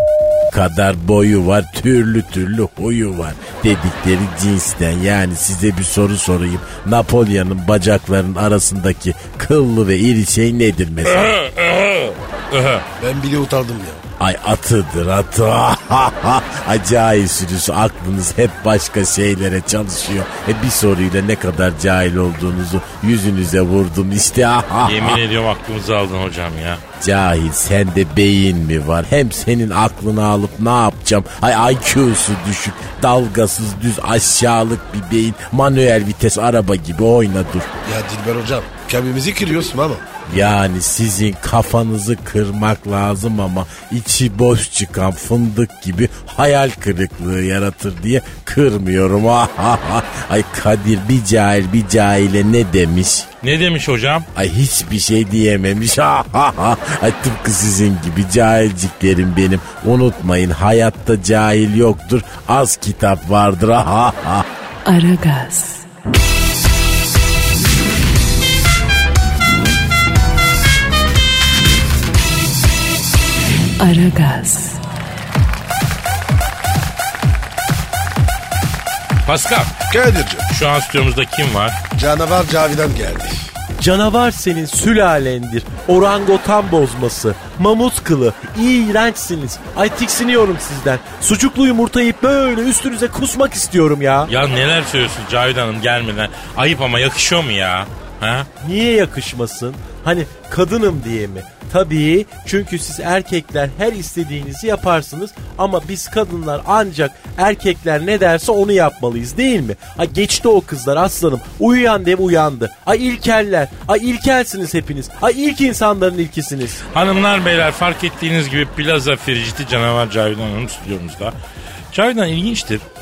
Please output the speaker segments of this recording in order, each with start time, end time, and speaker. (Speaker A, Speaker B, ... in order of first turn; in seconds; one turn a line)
Speaker A: 0.5-11.3
Speaker B: 11.1-12.8
Speaker C: 13.0-14.0
Speaker A: 14.2-25.2
Speaker B: 24.8-26.8
Speaker A: 27.0-37.7
Speaker C: 37.9-40.0
Speaker A: 40.3-53.3
Speaker B: 53.4-54.3
Speaker A: 54.3-64.5
Speaker D: 64.8-65.8
Speaker D: 73.8-74.8
Speaker B: 79.2-79.7
Speaker C: 79.9-80.4
Speaker B: 80.5-81.8
Speaker C: 82.0-83.4
Speaker E: 83.8-94.3
Speaker B: 94.3-98.5
Speaker E: 98.6-116.8
Speaker B: 116.9-121.3
Speaker B: 121.9-122.8